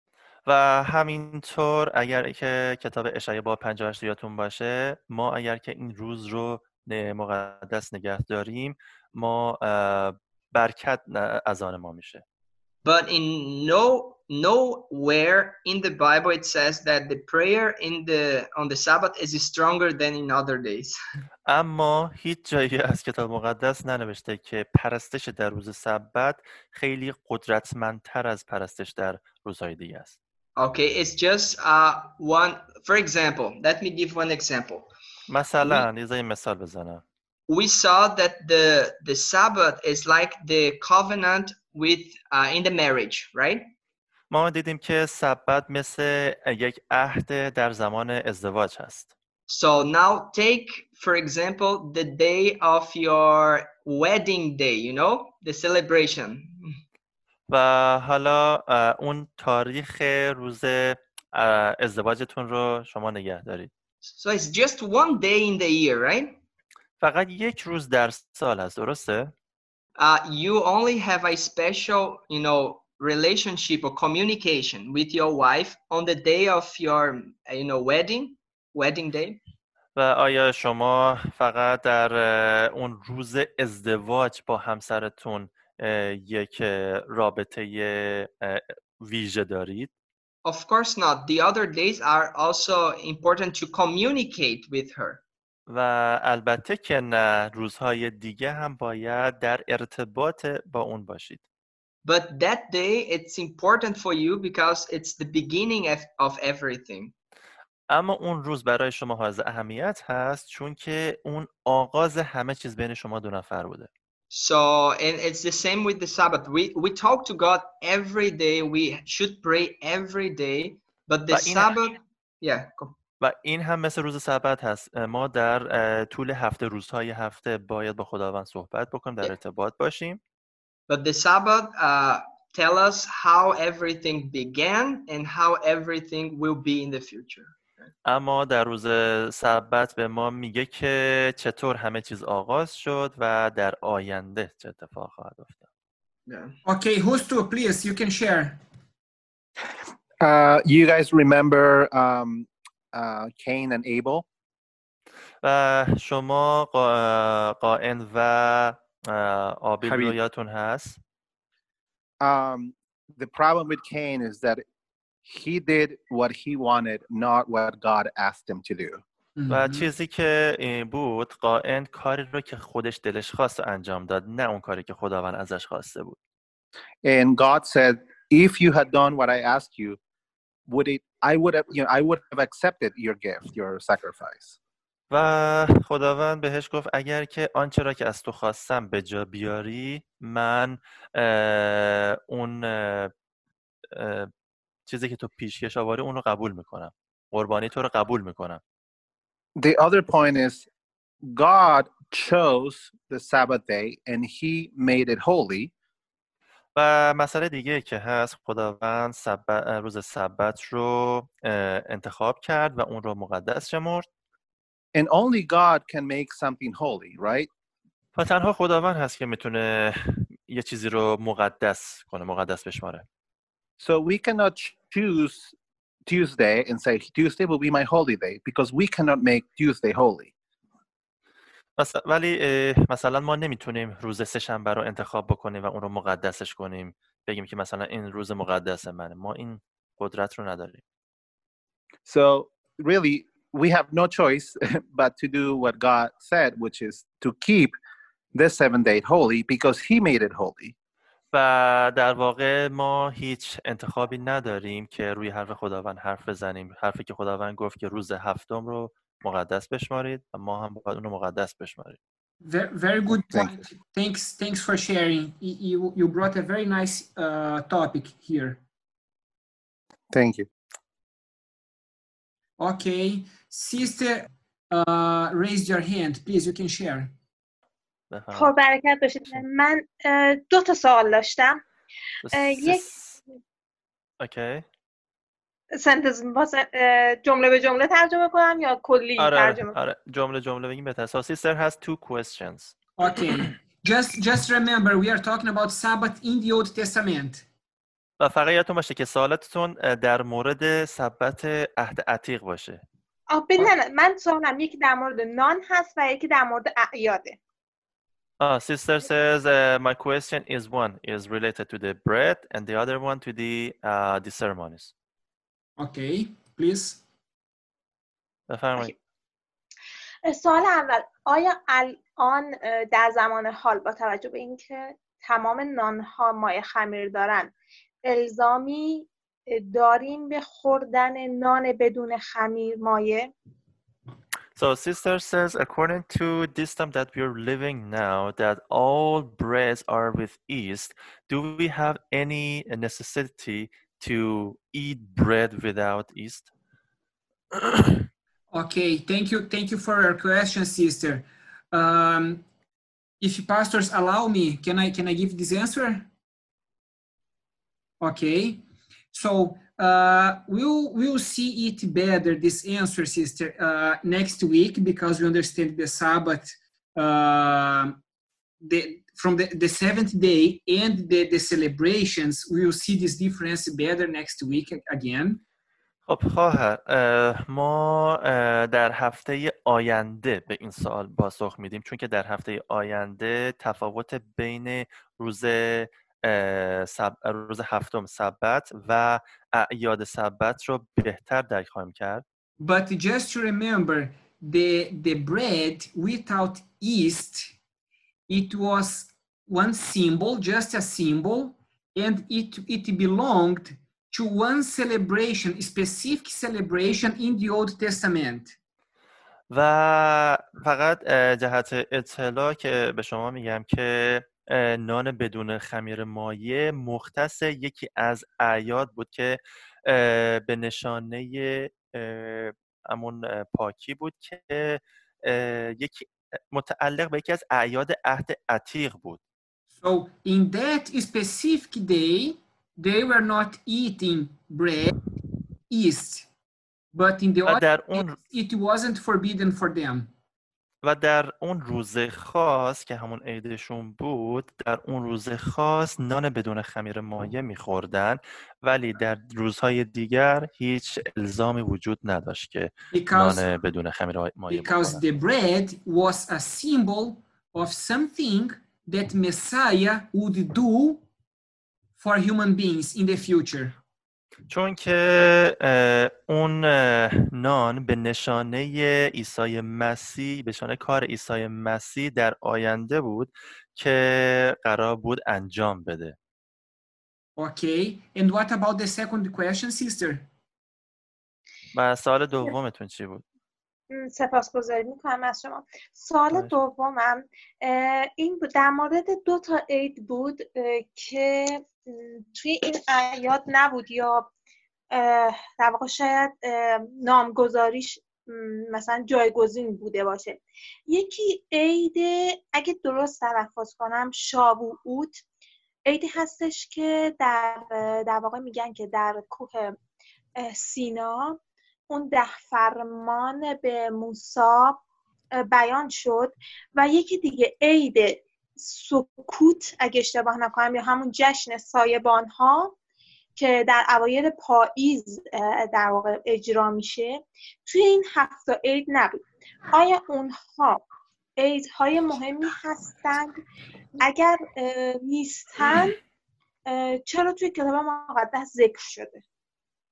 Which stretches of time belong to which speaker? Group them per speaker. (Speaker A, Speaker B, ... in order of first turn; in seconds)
Speaker A: 0.5-12.2, 21.5-30.1, 35.3-37.0, 44.3-49.1, 57.5-63.7, 67.0-69.3, 80.0-89.9, 95.7-101.4, 107.9-113.9, 121.3-121.7, 123.2-130.2, 138.1-145.6, 155.4-161.0, 169.5-176.2, 185.1-193.1, 193.9-194.3, 194.9-198.6, 206.7-214.1, 218.1-223.0, 231.8-240.8, 251.3-262.0, 278.1-278.5, 282.2-283.1, 284.2-284.6, 289.2-292.7, 298.2-302.8, 308.4-314.9, 318.5-318.9, 334.6-346.5, 347.5-348.1, 376.1-392.2, 409.5-429.2, 437.4-438.1, 440.8-455.0, 464.5-476.1, 481.7-483.2
Speaker B: 12.8-20.9, 30.6-34.9, 37.5-43.6, 49.5-56.8, 64.2-66.4, 70.0-79.4, 90.4-95.2, 102.0-107.1, 114.3-122.9, 130.9-137.6, 146.3-146.5
Speaker C: 146.7-148.6, 169.4-169.8, 262.4-268.6, 272.6-277.1, 293.0-297.4, 315.8-317.0, 348.5-352.4, 353.2-356.1, 358.0-368.0, 368.6-375.4, 392.6-397.5, 398.3-408.6, 429.8-434.9, 435.7-436.3, 436.9-440.1, 452.9-453.4, 454.5-461.0, 462.0-463.8, 477.4-480.2
Speaker D: 150.2-154.2, 159.8-160.2, 162.2-164.6, 165.2-169.0, 177.0-180.0, 180.7-184.5, 199.6-200.7, 201.2-205.7, 214.9-217.5, 223.8-225.5, 226.1-230.3, 242.1-247.7, 248.3-250.7, 270.1-270.5
Speaker E: 278.3-281.6, 282.3-282.9, 285.7-289.8, 303.3-307.4, 320.2-327.5, 328.0-333.3, 483.9-494.3, 494.9-505.2, 505.8-509.8, 510.4-514.8, 515.4-522.7, 523.4-530.8, 531.4-533.4, 534.0-536.0, 536.6-539.2